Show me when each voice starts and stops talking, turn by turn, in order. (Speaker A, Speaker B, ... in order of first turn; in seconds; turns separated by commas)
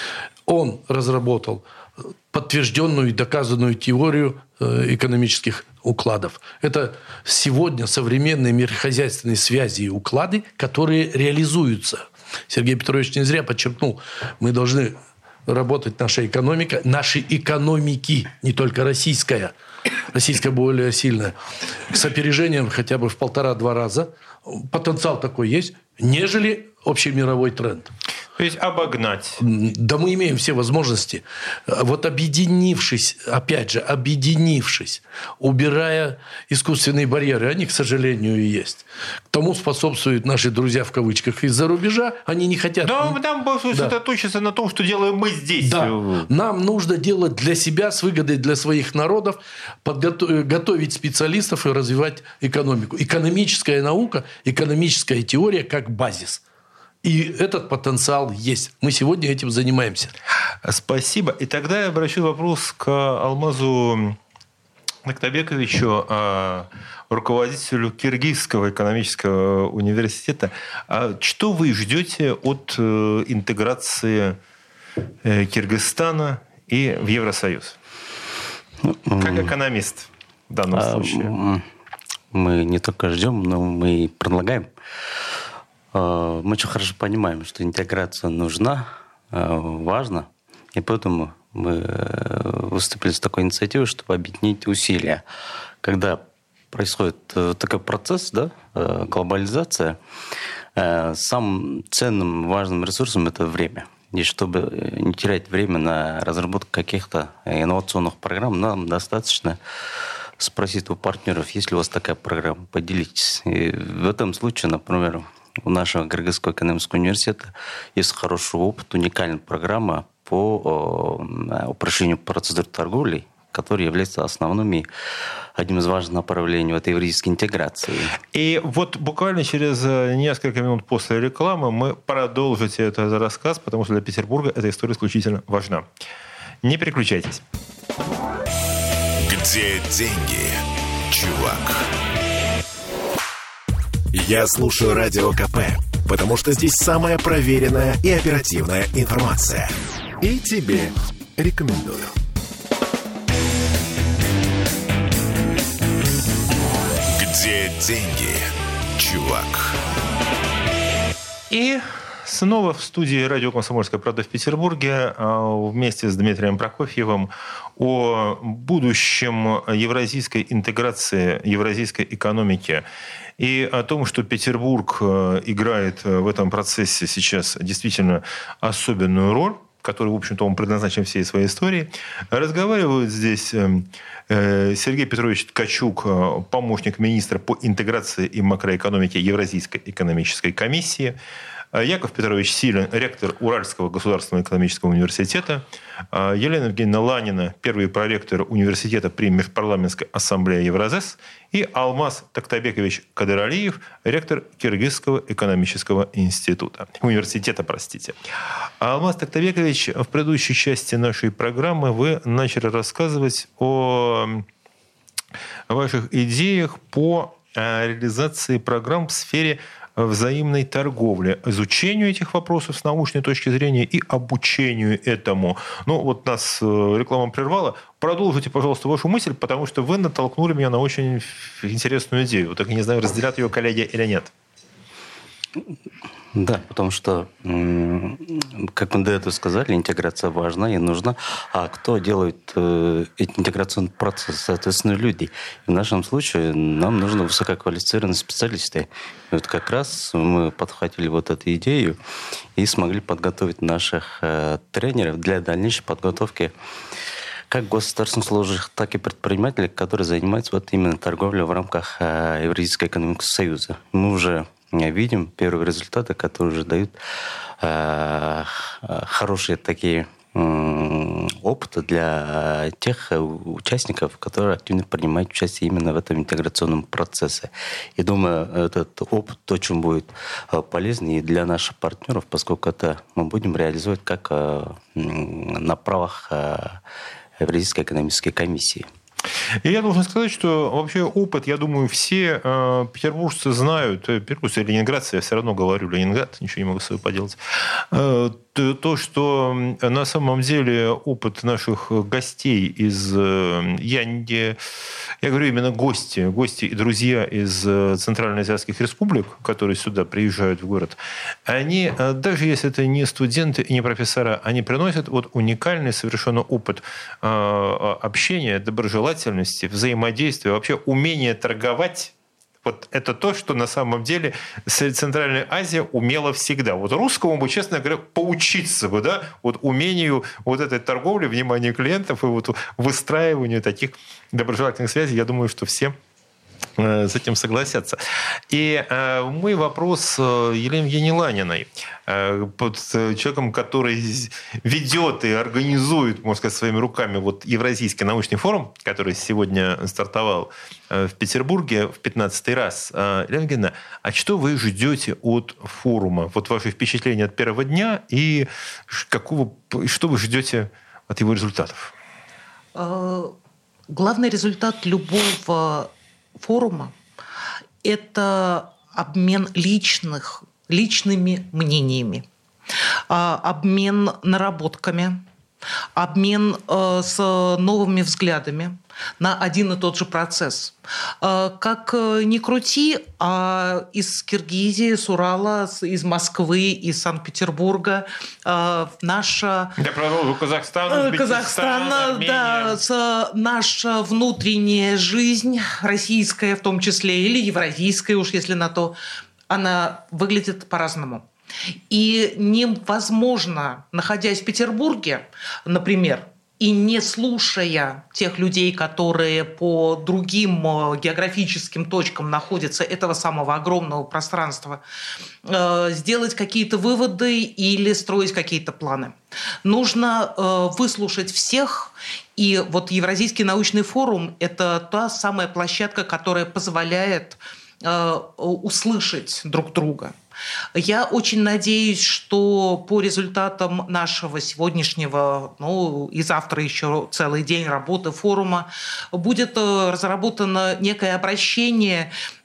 Speaker A: 0.5-1.6, Speaker A: 2.3-19.5, Speaker A: 20.1-21.4, Speaker A: 21.9-27.9, Speaker B: 28.4-29.4, Speaker A: 29.4-43.2, Speaker B: 42.8-46.3, Speaker A: 45.6-56.4, Speaker A: 57.0-60.1, Speaker B: 60.6-64.2, Speaker B: 65.0-74.4, Speaker B: 75.2-77.8, Speaker C: 78.9-79.5, Speaker B: 79.2-81.3, Speaker C: 80.7-81.7, Speaker C: 82.3-84.7, Speaker C: 85.9-95.2, Speaker C: 95.8-100.0, Speaker C: 100.8-109.6, Speaker C: 110.4-124.9, Speaker C: 125.6-128.1, Speaker B: 128.3-135.8, Speaker B: 136.6-137.4, Speaker D: 139.2-141.9, Speaker D: 144.1-152.1, Speaker D: 157.1-159.8, Speaker B: 161.5-172.8, Speaker B: 173.4-191.2, Speaker B: 191.7-208.2, Speaker B: 208.8-214.4, Speaker B: 215.7-234.3, Speaker C: 236.3-252.0, Speaker C: 252.6-256.5, Speaker C: 257.5-266.9, Speaker C: 267.6-286.8, Speaker C: 287.4-288.9, Speaker B: 289.6-304.6, Speaker B: 305.2-322.1, Speaker B: 322.6-335.9, Speaker B: 336.8-338.0, Speaker B: 338.5-361.9, Speaker E: 362.8-363.3, Speaker E: 363.9-367.0, Speaker E: 367.8-372.2, Speaker E: 373.1-375.2, Speaker E: 376.0-389.7, Speaker B: 389.8-392.8, Speaker E: 390.9-399.0, Speaker E: 399.5-401.3, Speaker E: 401.9-414.8, Speaker E: 415.4-430.2, Speaker E: 430.8-442.1